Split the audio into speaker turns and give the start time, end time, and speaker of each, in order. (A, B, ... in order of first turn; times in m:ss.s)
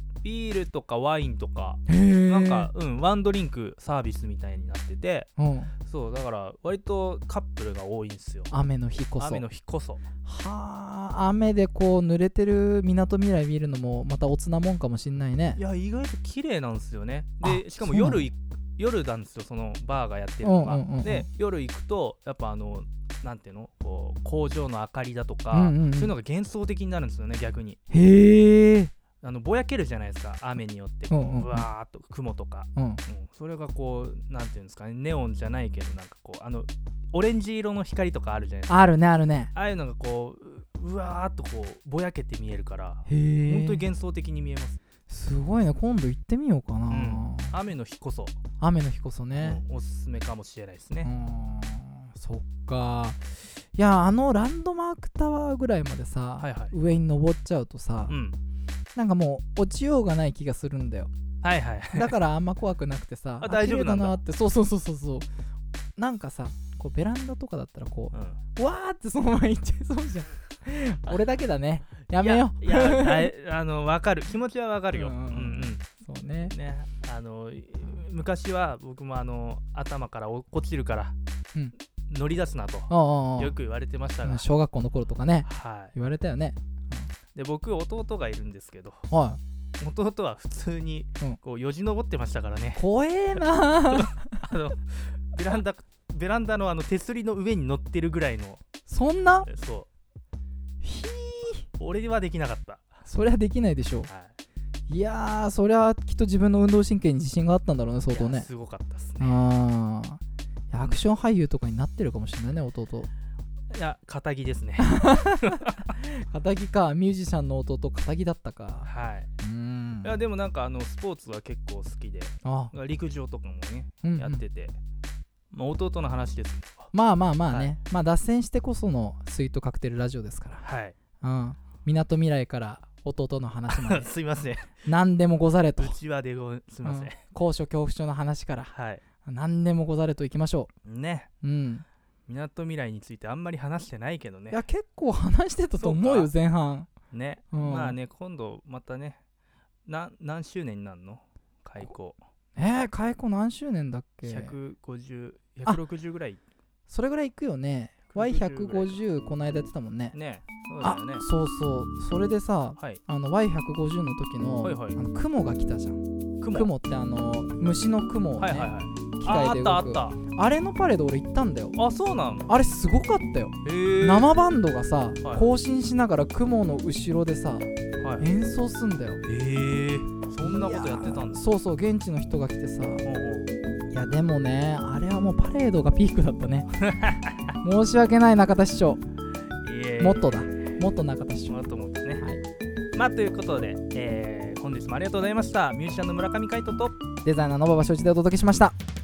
0:00.2-0:05.3 A
0:01.9-0:02.7 B
0:05.4-0:05.7 B
0:05.8-0:08.5 A
0:08.5-0:09.4 B
0:09.2-0:10.0 A
0:10.2-0:15.6 B
0:15.6-0:27.8 A
0:17.4-0:18.3 B
0:20.4-0:21.3 B
0:25.5-0:26.1 B
0:27.9-0:28.9 B
0:29.2-0:38.8 A
0:31.1-0:31.7 B
0:32.8-0:33.0 B
0:38.7-0:39.5 B
0:39.5-0:44.8 A
0:43.1-0:43.9 B
0:45.1-0:47.6 B
0:46.9-0:48.4 A
0:48.6-0:49.6 B
0:49.3-0:51.1 A
0:51.0-0:53.2 B
0:53.8-0:58.2 B
0:56.4-0:56.7 A
0:58.1-0:58.4 A
0:59.0-1:01.1 B
1:01.4-1:02.1 A
1:01.9-1:05.3 B
1:03.4-1:04.2 A
1:06.0-1:13.3 B
1:08.1-1:08.4 A
1:12.2-1:15.8 A
1:14.9-1:16.5 B
1:16.4-1:21.2 A
1:22.1-1:24.5 A
1:22.9-1:23.6 B
1:24.2-1:27.1 B
1:25.4-1:25.9 A
1:27.4-1:29.1 A
1:29.1-1:29.4 B
1:29.8-1:32.8 A
1:32.8-1:34.5 B
1:33.9-1:38.6 A
1:38.9-1:39.5 B
1:39.4-1:39.9 A
1:40.8-1:41.7 B
1:41.8-1:42.9 A
1:43.0-1:44.1 B
1:44.1-1:44.3 A
1:44.9-1:48.5 B
1:48.1-1:49.5 A
1:49.2-1:53.1 B
1:53.7-1:55.9 A
1:54.8-1:58.9 B
1:58.8-1:59.3 A
1:59.4-2:00.2 B
2:00.0-2:04.8 A
2:02.4-2:02.7 B
2:04.0-2:04.4 B
2:05.5-2:06.9 A
2:06.9-2:10.6 B
2:10.6-2:11.0 A
2:11.2-2:14.1 B
2:13.7-2:14.8 A
2:14.8-2:16.0 B
2:15.8-2:17.2 A
2:16.8-2:18.7 B
2:18.7-2:19.0 A
2:19.2-2:20.7 B
2:20.8-2:21.3 A
2:21.4-2:21.8 B
2:22.3-2:24.6 A
2:24.5-2:26.9 B
2:25.8-2:26.3 A
2:27.1-2:29.2 A
2:27.5-2:28.0 B
2:29.9-2:32.2 A
2:32.6-2:34.6 B
2:34.2-2:36.4 A
2:36.9-2:40.2 B
2:38.1-2:39.0 A
2:40.1-2:41.2 A
2:40.8-2:51.8 B
2:44.6-2:45.0 A
2:46.4-2:46.7 A
2:48.4-2:50.2 A
2:51.8-2:52.5 A
2:52.5-2:59.2 B
2:53.6-2:54.3 A
2:55.2-2:55.5 A
2:58.0-2:58.3 A
2:59.2-3:01.4 A
3:00.4-3:03.0 B
3:03.0-3:03.5 A
3:03.9-3:06.7 B
3:06.8-3:07.5 A
3:07.6-3:09.0 B
3:09.6-3:10.8 A
3:10.0-3:11.6 B
3:11.5-3:12.2 A
3:13.0-3:17.0 A
3:17.2-3:18.8 B